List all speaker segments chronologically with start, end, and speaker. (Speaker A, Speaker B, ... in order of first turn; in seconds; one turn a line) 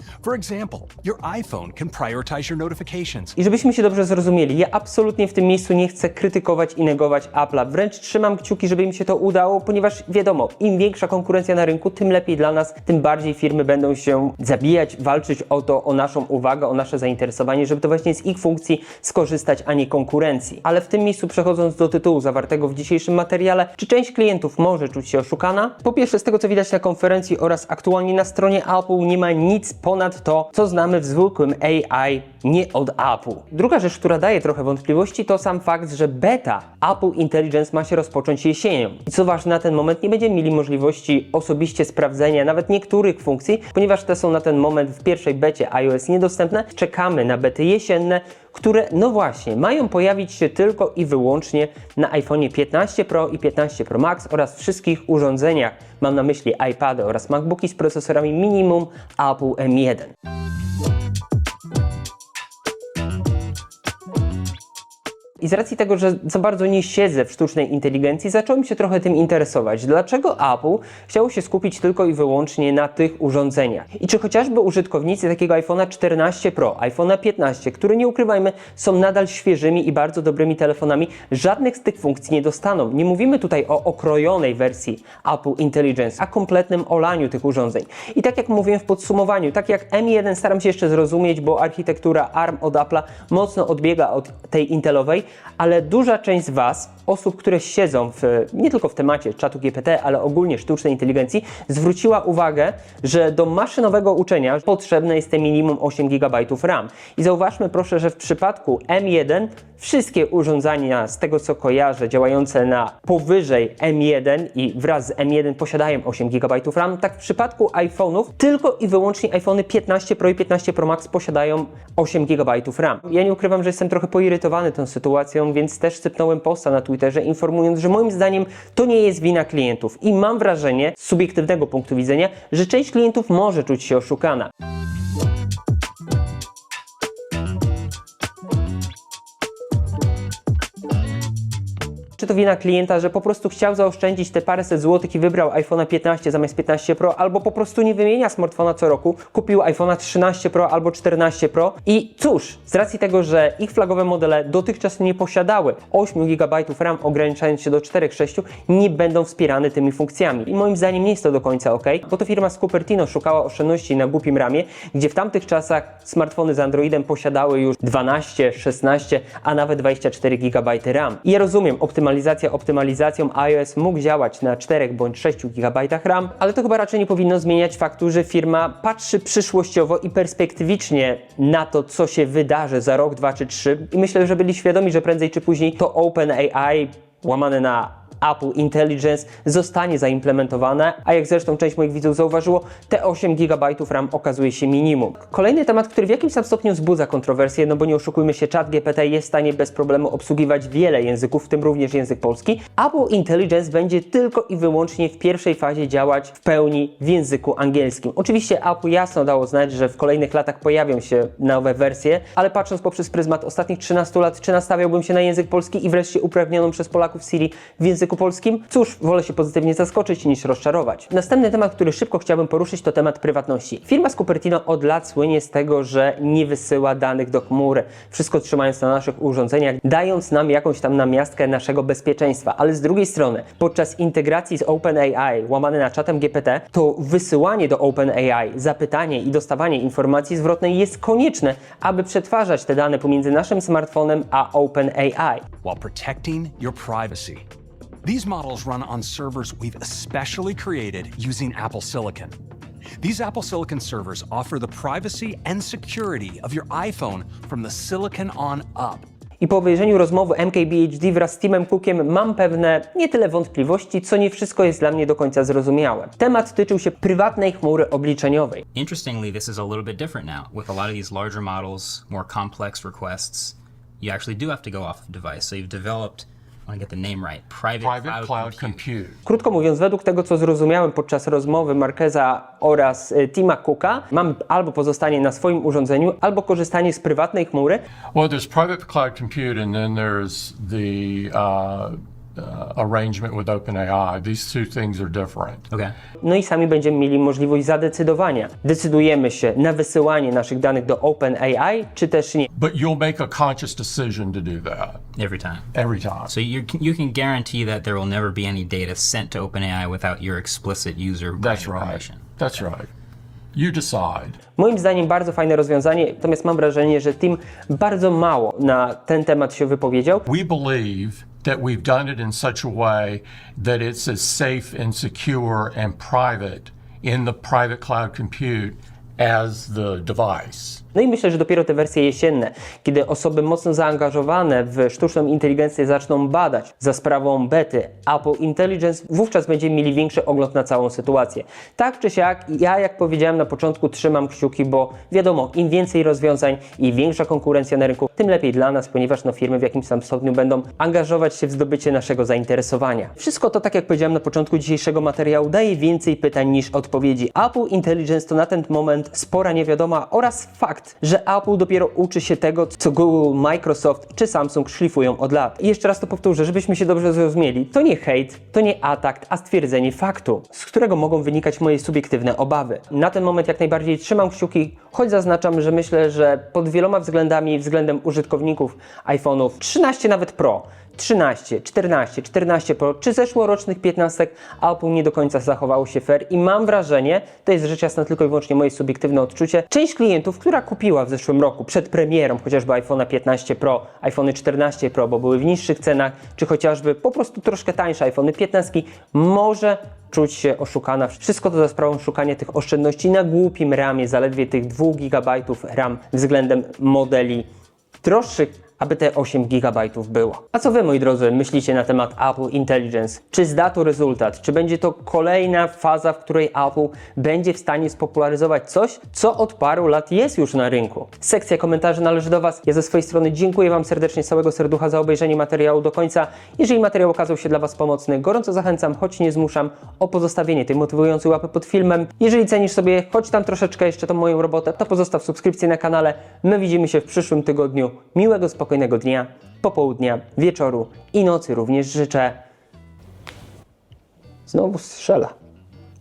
Speaker A: 0.2-3.3
Speaker B: 3.4-60.1
Speaker B: 65.4-134.5
Speaker B: 142.2-245.4
Speaker A: 245.6-247.4
Speaker A: 248.0-252.3
Speaker A: 253.0-259.1
Speaker B: 259.4-268.6
Speaker C: 268.7-278.8
Speaker D: 277.8-279.2
Speaker B: 279.2-287.8
Speaker D: 288.1-295.6
Speaker B: 296.2-302.5
Speaker D: 302.6-305.0
Speaker C: 305.1-305.6
Speaker D: 305.7-306.3
Speaker C: 306.2-312.2
Speaker D: 311.4-312.9
Speaker D: 313.5-314.4
Speaker B: 314.6-320.2
Speaker D: 320.3-330.8
Speaker B: 330.9-407.5
Speaker B: 408.0-442.4
Speaker B: 444.5-445.3